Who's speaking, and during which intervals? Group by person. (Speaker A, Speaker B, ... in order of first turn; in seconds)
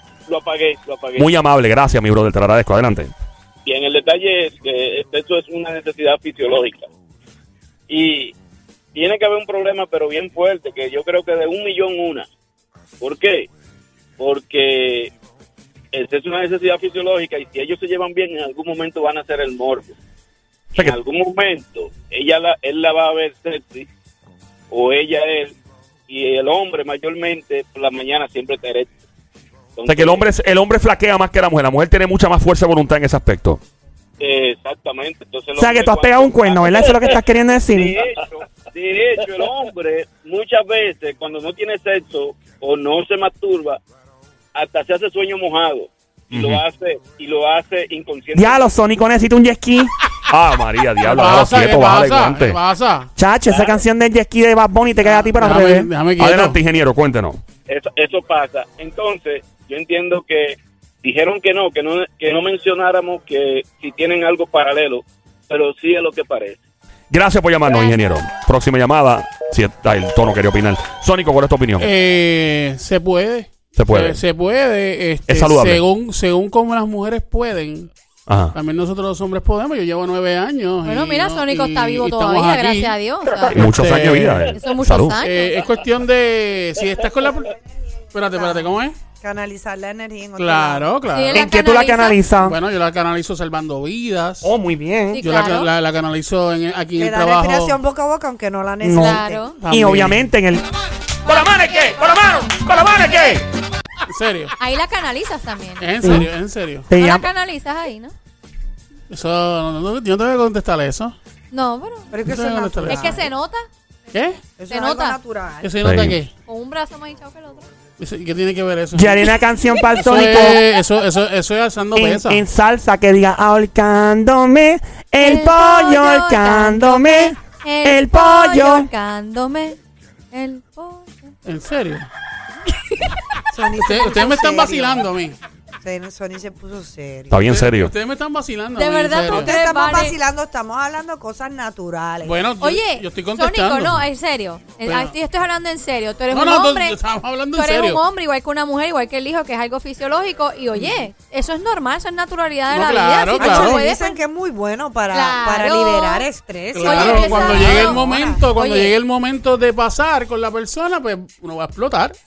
Speaker A: 0.3-1.3, 3.6-6.9, 7.9-8.3, 8.9-12.3, 13.0-13.5, 14.2-15.1, 15.9-19.9, 20.8-23.9, 24.7-25.6, 26.1-28.9, 29.8-30.2, 34.2-43.8, 44.5-48.7, 53.5-53.8, 57.7-66.6
Speaker B: 1.2-3.1, 29.9-33.6, 46.3-46.6, 50.3-52.6, 56.2-57.4, 67.1-71.9, 73.8-74.2, 75.3-75.8, 78.3-78.6, 83.5-85.2, 101.2-103.5, 115.8-116.2, 137.3-137.9
Speaker C: 35.6-38.0, 48.4-49.9, 53.2-55.9, 91.3-92.6, 94.4-95.2, 98.8-100.6, 106.0-106.3, 106.9-107.3, 118.9-120.6, 122.0-128.9
Speaker D: 51.0-53.1, 55.0-56.6, 71.8-77.9, 78.5-83.0, 83.5-84.5, 85.2-87.5, 88.1-89.0, 90.4-91.4, 92.4-94.5, 95.2-97.8, 99.6-100.3, 104.1-104.5, 105.8-106.9, 109.1-111.2, 112.3-113.2, 114.1-114.4, 115.6-116.3, 118.0-119.2, 120.0-122.4, 131.4-132.1, 133.8-135.4, 137.5-139.6, 142.2-144.0, 144.8-145.1, 146.3-148.0, 152.7-153.8, 156.7-162.2
Speaker E: 67.7-68.2, 80.8-83.6, 84.5-85.6, 91.1-92.2, 95.1-95.7, 98.9-99.6, 101.2-102.9, 104.6-106.2, 106.9-108.1, 111.5-112.1, 112.8-113.7, 114.7-115.2, 116.5-117.7, 125.2-129.8, 130.3-131.3, 138.8-140.2, 142.6-147.0, 147.5-154.2, 155.1-156.2, 156.8-158.9
Speaker F: 88.2-90.9, 97.0-99.5, 112.1-113.3, 114.6-115.8, 133.5-135.1, 135.8-137.4, 139.3-142.4, 153.4-158.4